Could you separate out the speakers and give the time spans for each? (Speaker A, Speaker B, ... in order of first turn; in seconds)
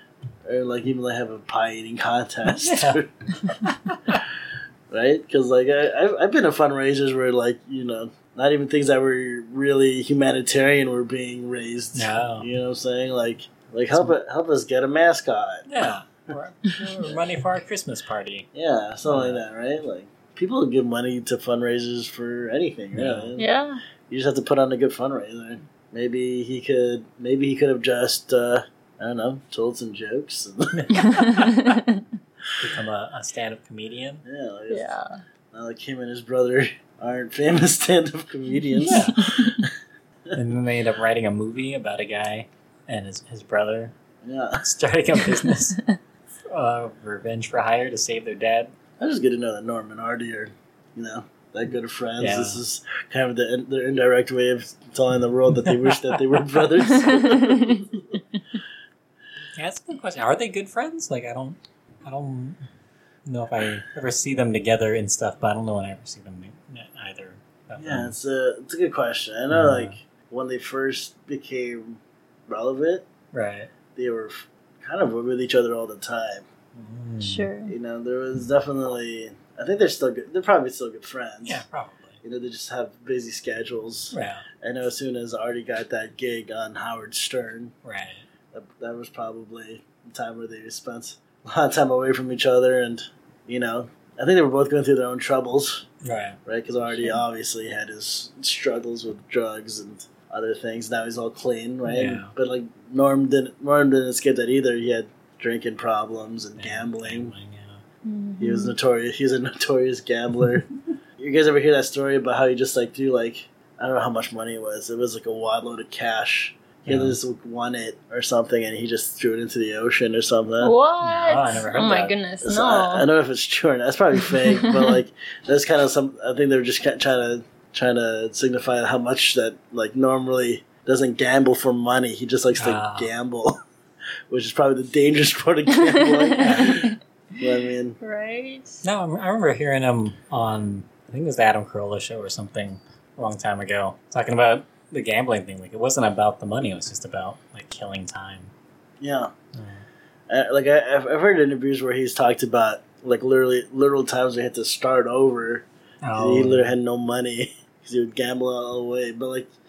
Speaker A: 0.5-3.1, 4.9-15.7, 17.0-17.4, 18.5-23.5, 24.1-30.9, 34.2-35.0, 35.5-39.7, 44.2-44.6, 49.0-58.0, 67.8-73.0, 74.0-76.5, 77.7-81.6, 82.2-87.7, 88.5-95.8, 96.5-107.3, 108.4-120.7, 122.4-133.5, 134.3-138.0, 149.0-149.3, 150.3-155.7, 156.2-159.5
Speaker B: 2.5-3.0, 3.6-4.1, 11.9-12.5, 15.7-18.5, 19.1-19.4, 22.9-23.3, 30.7-31.8, 32.6-34.2, 38.8-39.5, 40.3-43.9, 44.6-45.8, 46.5-48.7, 52.2-52.6, 59.6-62.6, 63.2-68.1, 69.5-69.9, 73.3-73.7, 76.8-77.5, 81.5-82.2, 84.1-84.4, 87.8-88.2, 96.0-96.4, 101.9-102.3, 106.6-107.8, 116.9-117.2, 121.0-122.1, 132.6-133.1, 136.4-136.8, 138.8-148.5, 156.0-156.7
Speaker C: 23.4-23.8, 31.1-32.0, 34.7-35.2, 39.0-39.2, 45.5-46.0, 56.9-57.9, 77.2-77.7, 96.9-97.2, 108.0-108.8, 120.6-123.1, 124.3-125.0, 135.7-136.9, 138.0-138.8